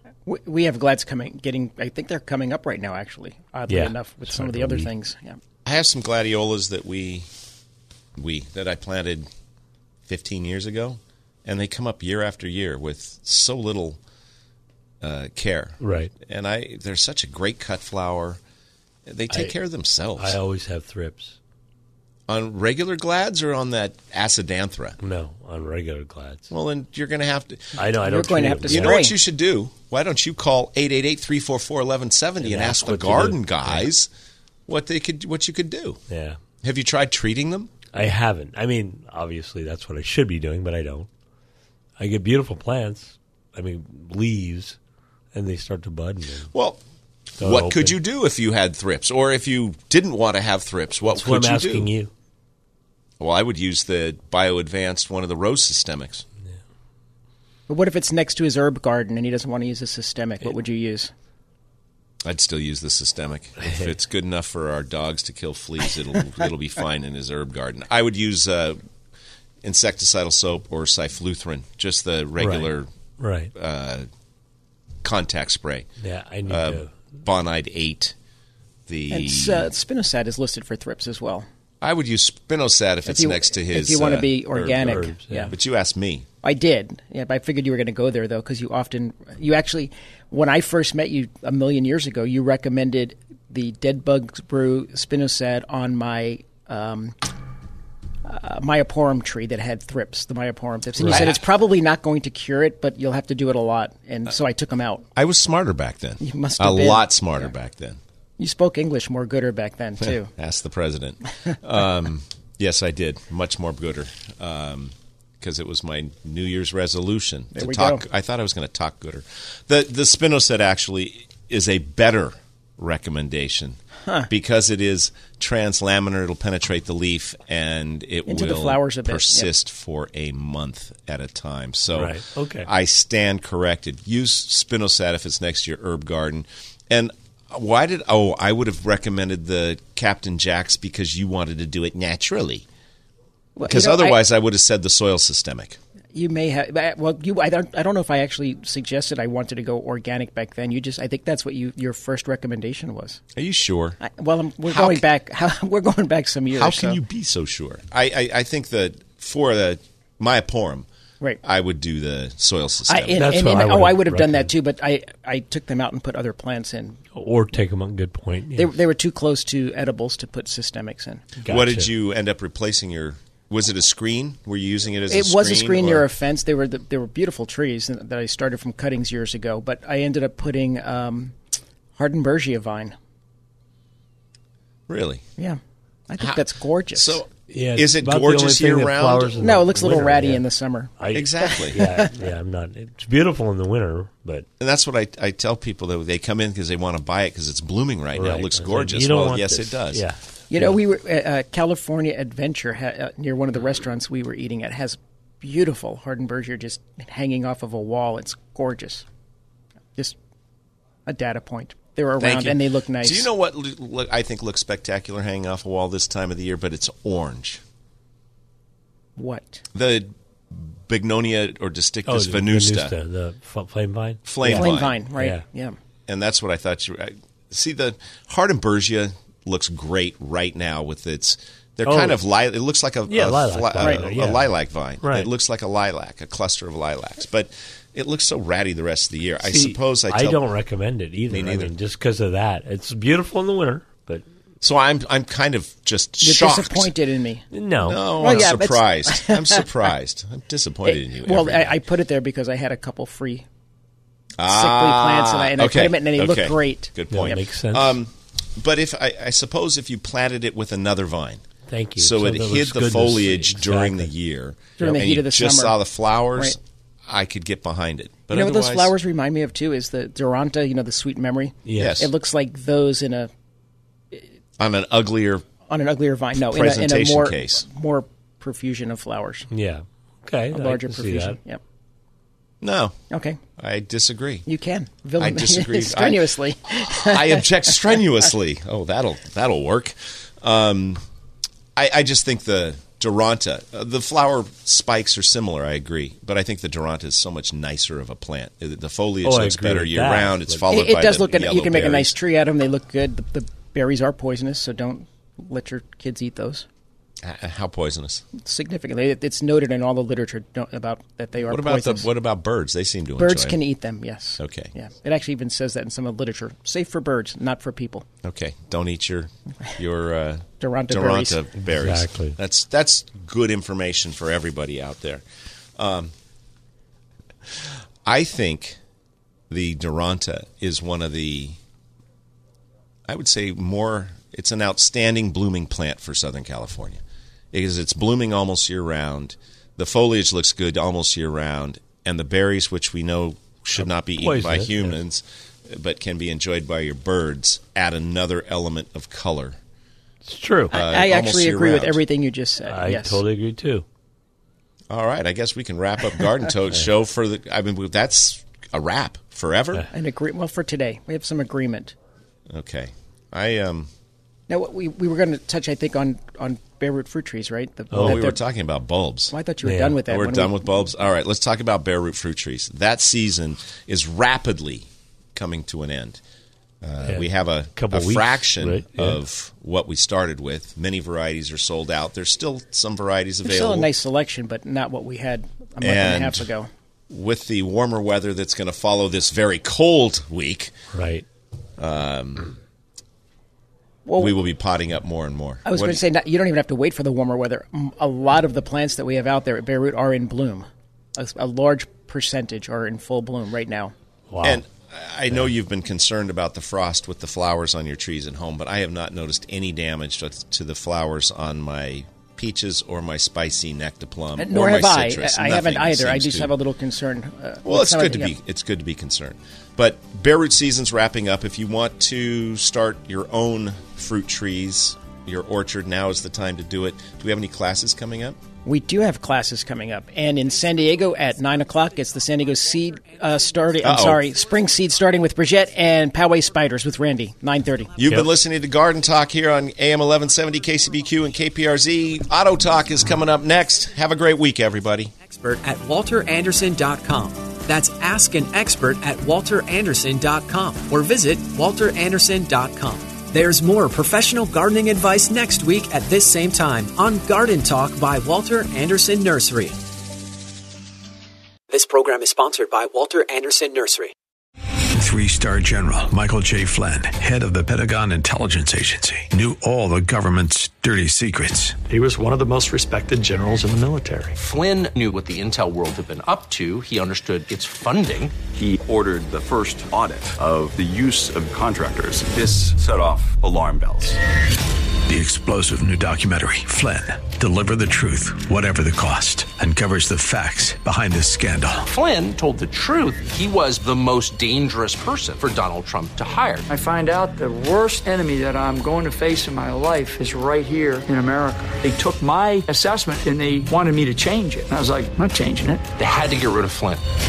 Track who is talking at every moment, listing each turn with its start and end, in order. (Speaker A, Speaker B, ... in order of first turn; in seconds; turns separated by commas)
Speaker A: 0.2-5.4, Speaker B: 3.7-4.9, Speaker C: 5.6-7.3, Speaker C: 8.2-9.3, Speaker C: 10.1-14.0, Speaker C: 15.0-18.4, Speaker B: 15.8-16.1, Speaker C: 19.1-20.4, Speaker B: 20.2-21.4, Speaker C: 22.3-25.0, Speaker B: 25.0-26.5, Speaker C: 26.5-27.8, Speaker B: 27.8-29.0, Speaker A: 28.0-29.1, Speaker C: 28.6-34.1, Speaker B: 32.4-33.9, Speaker C: 34.7-36.0, Speaker B: 36.1-36.4, Speaker C: 36.6-37.7, Speaker B: 37.9-41.1, Speaker B: 42.0-44.8, Speaker B: 45.3-46.5, Speaker C: 46.5-46.8, Speaker B: 47.4-47.9, Speaker C: 47.4-51.9, Speaker B: 51.1-52.1, Speaker C: 53.2-56.2, Speaker A: 57.7-61.1, Speaker C: 62.2-68.8, Speaker C: 69.6-72.9, Speaker B: 72.4-73.5, Speaker C: 73.5-74.1, Speaker C: 75.0-75.9, Speaker B: 76.0-76.9, Speaker C: 76.5-78.1, Speaker C: 78.9-79.7, Speaker A: 79.1-81.5, Speaker C: 81.8-86.3, Speaker A: 83.0-85.5, Speaker B: 84.8-85.5, Speaker A: 86.4-97.2, Speaker A: 98.2-105.0, Speaker B: 101.0-101.3, Speaker C: 101.0-101.4, Speaker C: 105.1-108.0, Speaker A: 106.2-107.4, Speaker A: 108.4-110.3, Speaker C: 110.0-142.7, Speaker A: 117.5-118.0, Speaker A: 128.3-129.5, Speaker B: 131.9-132.7, Speaker A: 143.6-144.2, Speaker C: 143.7-145.8, Speaker A: 146.1-153.2, Speaker C: 153.3-154.0, Speaker A: 154.0-157.0, Speaker C: 154.7-155.0, Speaker C: 156.5-160.8, Speaker C: 161.4-163.2, Speaker A: 162.9-167.0, Speaker B: 163.1-164.5, Speaker B: 167.1-168.7, Speaker A: 168.5-171.4, Speaker B: 171.4-171.9, Speaker C: 171.5-176.1, Speaker A: 175.1-181.3, Speaker A: 181.9-182.9, Speaker C: 184.9-185.2, Speaker A: 185.4-187.2, Speaker C: 186.9-189.4, Speaker B: 187.5-190.4, Speaker A: 189.4-192.1, Speaker B: 191.0-194.4, Speaker C: 191.1-191.8, Speaker C: 194.6-200.0, Speaker B: 198.1-200.7, Speaker A: 200.5-209.1, Speaker A: 211.1-213.3, Speaker C: 212.2-217.6, Speaker A: 219.2-219.6, Speaker C: 219.7-222.9, Speaker B: 222.1-225.4, Speaker C: 224.2-225.0, Speaker A: 224.4-225.8, Speaker C: 226.1-240.4, Speaker B: 231.8-232.2, Speaker B: 233.1-235.3, Speaker B: 239.4-244.2, Speaker C: 241.3-241.7, Speaker C: 244.6-246.9, Speaker A: 246.2-247.4, Speaker B: 247.5-248.4, Speaker C: 247.8-251.8, Speaker A: 248.2-249.6, Speaker A: 250.8-253.4, Speaker C: 254.4-261.4, Speaker A: 254.4-257.4, Speaker B: 257.1-257.9, Speaker B: 261.7-264.1, Speaker C: 262.0-268.9, Speaker A: 264.8-265.8, Speaker A: 268.3-273.3, Speaker B: 271.6-272.0, Speaker C: 271.7-272.1, Speaker C: 274.6-275.4, Speaker A: 275.7-279.5, Speaker C: 276.4-277.6, Speaker B: 279.5-281.4, Speaker A: 280.5-281.6, Speaker C: 282.6-283.0, Speaker A: 283.1-283.4, Speaker C: 283.6-284.4, Speaker A: 284.4-287.7, Speaker C: 285.2-291.0, Speaker C: 291.8-302.1, Speaker B: 299.2-300.7, Speaker A: 300.7-306.7, Speaker C: 307.2-308.2, Speaker A: 308.4-312.1, Speaker C: 311.4-313.6, Speaker A: 313.2-318.0, Speaker C: 314.4-314.7, Speaker C: 318.2-325.2, Speaker A: 320.6-321.4, Speaker B: 321.7-322.3, Speaker C: 325.8-326.1, Speaker C: 328.0-328.8, Speaker C: 329.5-331.6, Speaker C: 333.1-337.0, Speaker C: 337.5-349.6, Speaker B: 344.2-344.9, Speaker B: 350.2-350.7, Speaker C: 350.7-352.0, Speaker A: 350.7-353.2, Speaker B: 352.6-353.8, Speaker C: 354.9-359.8, Speaker A: 359.9-361.9, Speaker C: 362.5-363.9, Speaker A: 364.5-368.4, Speaker B: 367.9-368.2, Speaker C: 367.9-369.3, Speaker A: 369.3-370.7, Speaker B: 369.6-370.0, Speaker C: 370.1-376.2, Speaker C: 376.8-383.9, Speaker B: 377.1-379.2, Speaker A: 383.4-386.7, Speaker C: 385.8-386.5, Speaker C: 387.1-390.8, Speaker B: 390.9-391.2, Speaker C: 391.8-392.5, Speaker A: 394.1-394.3, Speaker C: 394.2-396.0, Speaker A: 395.6-403.9, Speaker B: 404.3-404.6, Speaker C: 404.4-416.5, Speaker A: 414.4-418.3, Speaker C: 417.6-428.4, Speaker A: 428.6-437.9, Speaker C: 433.8-434.3, Speaker C: 438.0-445.1, Speaker B: 438.0-438.3, Speaker D: 445.3-459.8, Speaker D: 461.7-464.1, Speaker E: 464.9-471.8, Speaker F: 471.8-474.3, Speaker G: 474.3-478.3, Speaker H: 478.5-484.2, Speaker E: 485.1-491.9, Speaker G: 491.9-496.6, Speaker I: 496.7-505.9, Speaker G: 505.9-507.0